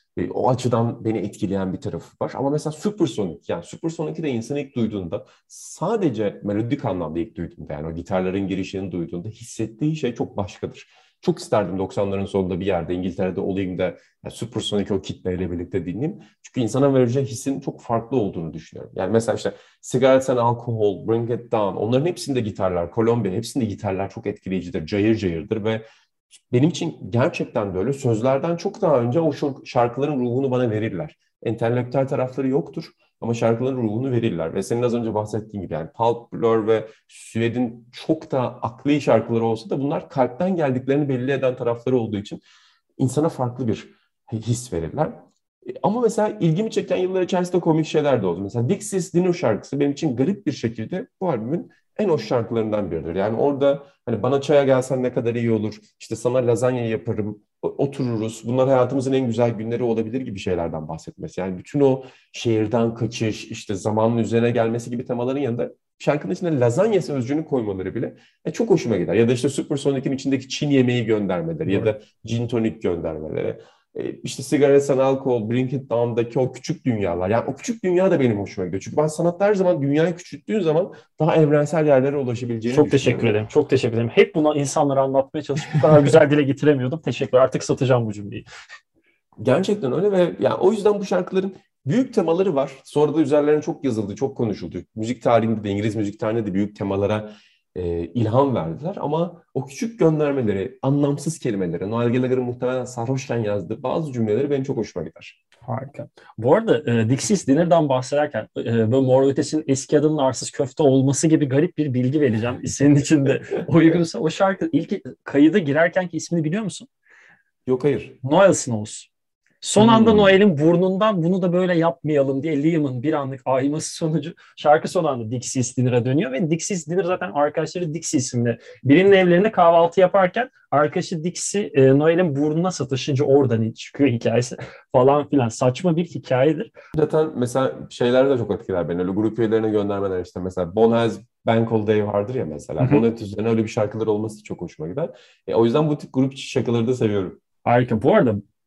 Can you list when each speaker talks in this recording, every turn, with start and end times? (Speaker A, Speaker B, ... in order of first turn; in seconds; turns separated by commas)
Speaker A: 0.1-25.8, Speaker A: 26.5-42.4, Speaker A: 43.0-83.3, Speaker B: 82.7-88.4, Speaker A: 89.4-105.4, Speaker B: 105.7-116.9, Speaker A: 117.7-118.2, Speaker B: 118.2-119.1, Speaker B: 119.6-136.7, Speaker A: 119.8-120.3, Speaker A: 136.9-147.4, Speaker B: 147.6-148.4